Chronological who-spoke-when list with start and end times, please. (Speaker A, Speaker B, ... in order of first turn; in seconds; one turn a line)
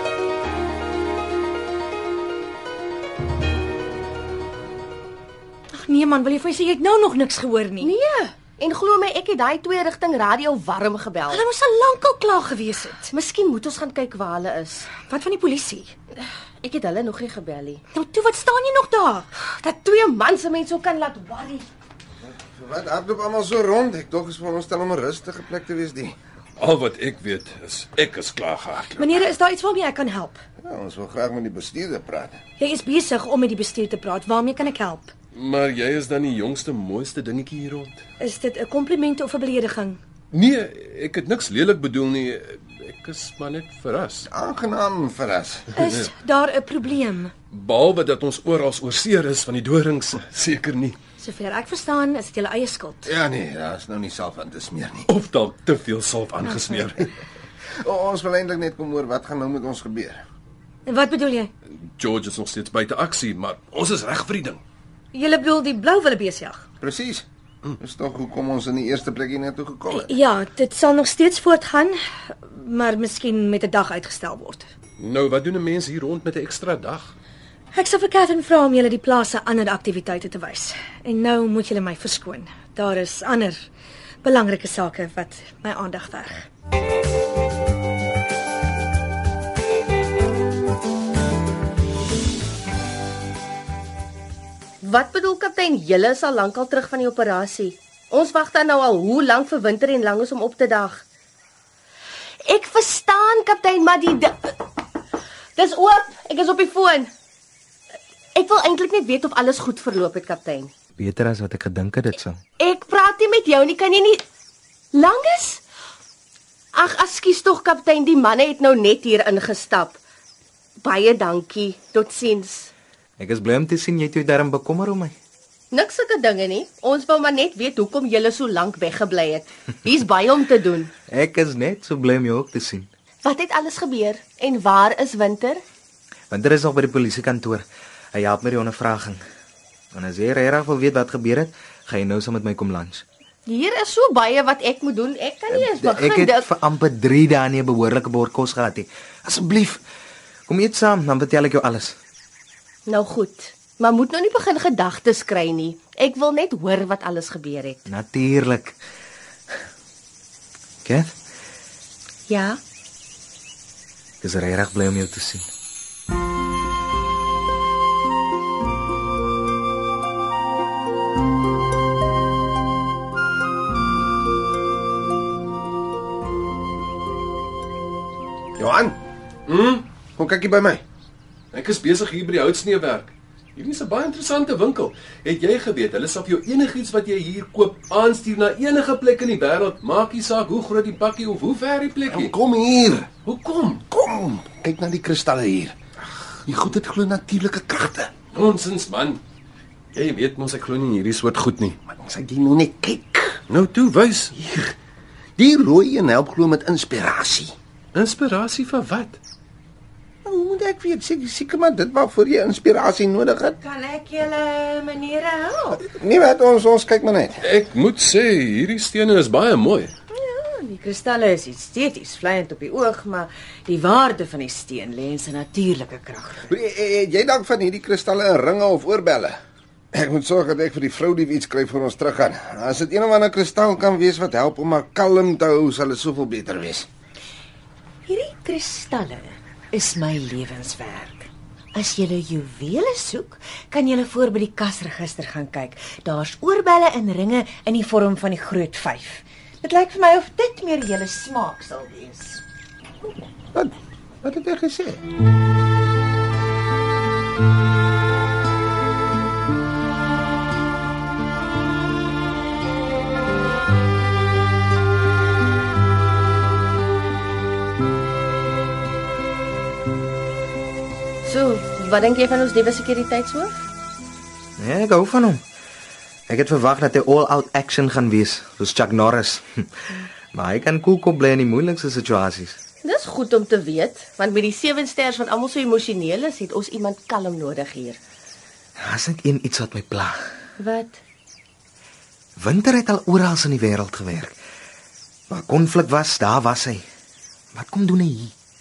Speaker A: 5.7-7.9
Speaker B: 7.8-11.4
Speaker A: 11.3-13.1
Speaker B: 13.1-15.0
Speaker A: 15.0-15.9
Speaker B: 16.1-17.8
Speaker A: 17.9-19.3
Speaker B: 19.4-21.7
Speaker C: 22.5-26.1
Speaker D: 26.6-29.1
Speaker A: 29.0-30.4
Speaker C: 30.6-32.4
Speaker A: 32.6-35.1
Speaker D: 35.3-38.0
Speaker A: 38.2-40.0
Speaker D: 40.3-44.3
Speaker C: 44.3-45.7
Speaker A: 45.7-47.3
Speaker D: 45.8-46.1
Speaker D: 47.5-51.0
Speaker A: 51.2-53.1
Speaker C: 53.1-55.0
Speaker D: 55.1-57.1
Speaker C: 57.8-60.2
Speaker A: 60.9-61.5
Speaker D: 62.0-64.6
Speaker A: 65.1-66.6
Speaker C: 66.8-67.2
Speaker C: 67.8-70.1
Speaker A: 69.9-74.7
Speaker D: 75.0-77.1
Speaker A: 77.7-83.7
Speaker A: 84.2-86.4
Speaker B: 94.8-101.0
Speaker B: 102.4-104.6
Speaker B: 105.5-107.1
Speaker B: 108.3-110.7
Speaker E: 111.0-112.4
Speaker B: 112.6-114.2
Speaker B: 114.9-115.6
Speaker B: 116.7-120.0
Speaker B: 120.8-122.7
Speaker E: 123.2-125.1
Speaker B: 125.7-130.9
Speaker E: 131.1-132.9
Speaker B: 133.2-135.6
Speaker E: 136.3-139.2
Speaker E: 139.9-143.0
Speaker B: 143.4-146.5
Speaker E: 145.5-149.8
Speaker E: 150.5-151.9
Speaker B: 152.9-157.8
Speaker E: 157.9-158.7
Speaker E: 160.8-161.1
Speaker B: 162.3-162.6
Speaker E: 164.2-165.4
Speaker C: 178.6-178.9
Speaker D: 179.5-179.8
Speaker C: 180.2-180.8
Speaker D: 181.5-192.3
Speaker C: 192.1-193.1
Speaker D: 193.2-193.8
Speaker C: 193.9-195.7
Speaker C: 196.4-198.1
Speaker D: 198.3-199.2
Speaker D: 199.9-201.8
Speaker C: 201.9-203.4
Speaker D: 203.5-204.3
Speaker C: 204.4-204.7
Speaker C: 205.4-207.5
Speaker D: 207.9-209.2
Speaker C: 210.2-213.6
Speaker F: 213.6-215.8
Speaker C: 215.8-217.4
Speaker D: 217.4-219.9
Speaker F: 220.1-226.5
Speaker C: 226.5-229.4
Speaker C: 229.9-236.9
Speaker F: 238.1-252.4
Speaker C: 253.5-255.0
Speaker B: 271.2-273.7
Speaker E: 274.6-275.4
Speaker E: 276.3-279.7
Speaker E: 280.3-282.6
Speaker B: 282.8-288.0
Speaker E: 288.8-290.2
Speaker B: 290.6-291.0
Speaker E: 292.4-294.3
Speaker E: 295.3-296.8
Speaker E: 297.5-298.3